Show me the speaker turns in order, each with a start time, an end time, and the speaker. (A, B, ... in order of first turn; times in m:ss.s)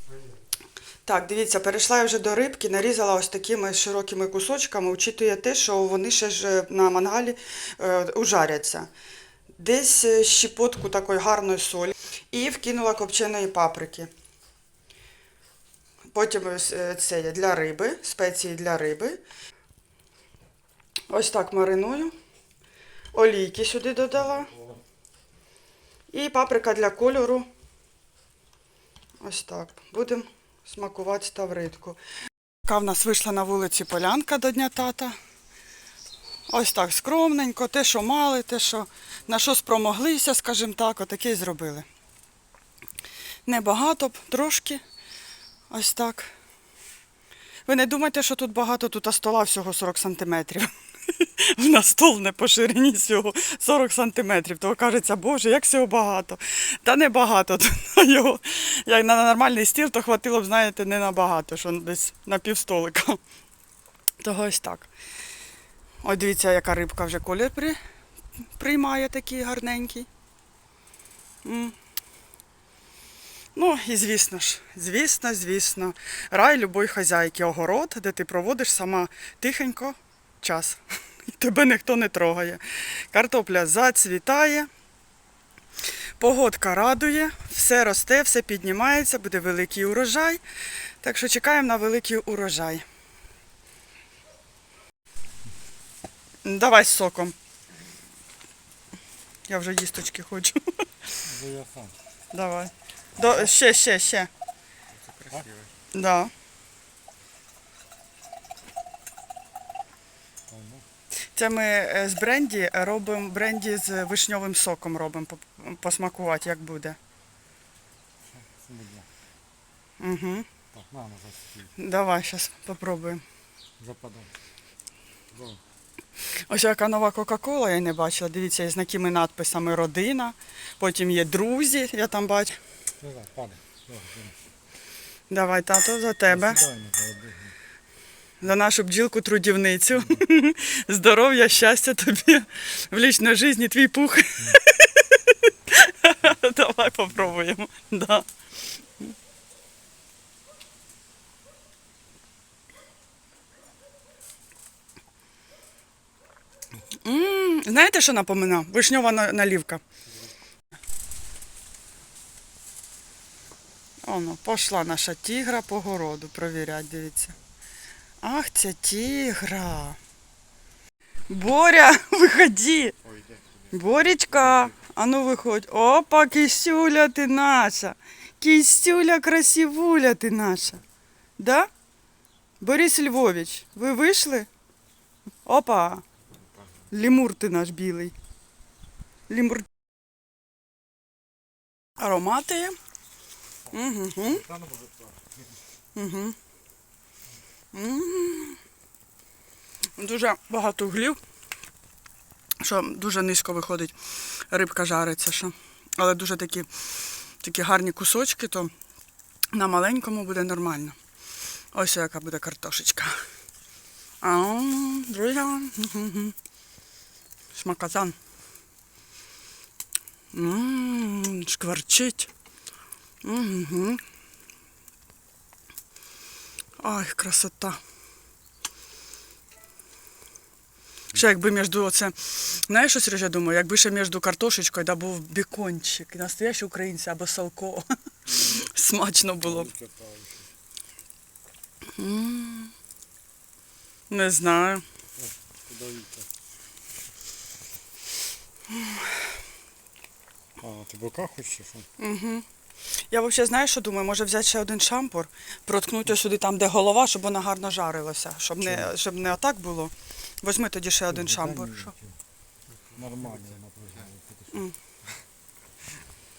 0:01.0-0:08.9 A
0:09.5-0:14.1 A
0:16.1-0:19.2 A
0:21.1-0:22.1 A
0:23.1-0:24.6 A
0:26.1-0:27.5 A
0:29.2-0:32.0 A
0:32.6-0:35.2 A
0:36.5-0:41.9 A
0:43.4-0:44.8 A
0:45.7-0:46.3 A
0:47.6-1:03.2 A
1:04.2-1:04.9 A
1:06.0-1:07.8 A
1:08.6-1:10.1 A
1:11.4-1:11.8 A
1:13.5-1:24.7 A
1:26.2-1:30.4 A
1:31.0-1:32.8 A
1:36.4-1:37.4 A
1:39.5-1:41.1 A
1:41.2-1:41.9 B
1:42.3-1:44.3 A
1:45.2-1:45.5 B
1:45.9-1:46.3 A
1:50.5-1:50.8 B
1:51.3-1:57.0 A
1:58.2-1:59.1 B
2:00.0-2:00.5 A
2:00.7-2:01.7 B
2:01.8-2:03.2 A
2:03.8-2:04.3 B
2:05.3-2:05.6 B
2:06.3-2:12.6 A
2:13.0-2:14.4 B
2:15.3-2:16.6 A
2:16.3-2:17.5 B
2:18.4-2:28.3 A
2:36.9-2:39.8 A
2:44.0-2:47.4 A
2:48.2-2:50.0 A
2:51.3-2:53.0 A
2:53.7-3:00.8 A
3:01.4-3:01.7 A
3:02.6-3:04.5 A
3:05.4-3:06.0 A
3:06.9-3:08.1 A
3:09.3-3:09.7 A
3:12.0-3:12.8 A
3:13.7-3:14.5 A
3:14.2-3:15.5 B
3:15.9-3:16.4 A
3:17.7-3:18.6 A
3:20.0-3:21.2 A
3:22.6-3:28.7 A
3:29.5-3:31.0 A
3:31.7-3:33.2 A
3:34.2-3:36.3 A
3:37.5-3:38.2 A
3:40.3-3:42.3 A
3:43.2-3:44.0 A
3:46.8-3:47.8 A
3:51.1-3:59.7 A
3:59.4-4:00.5 B
4:01.8-4:02.7 A
4:04.1-4:04.8 A
4:05.2-4:06.3 B
4:08.7-4:09.1 A
4:10.6-4:11.9 B
4:12.0-4:12.4 A
4:13.1-4:21.9 A
4:21.1-4:22.2 B
4:22.9-4:24.6 B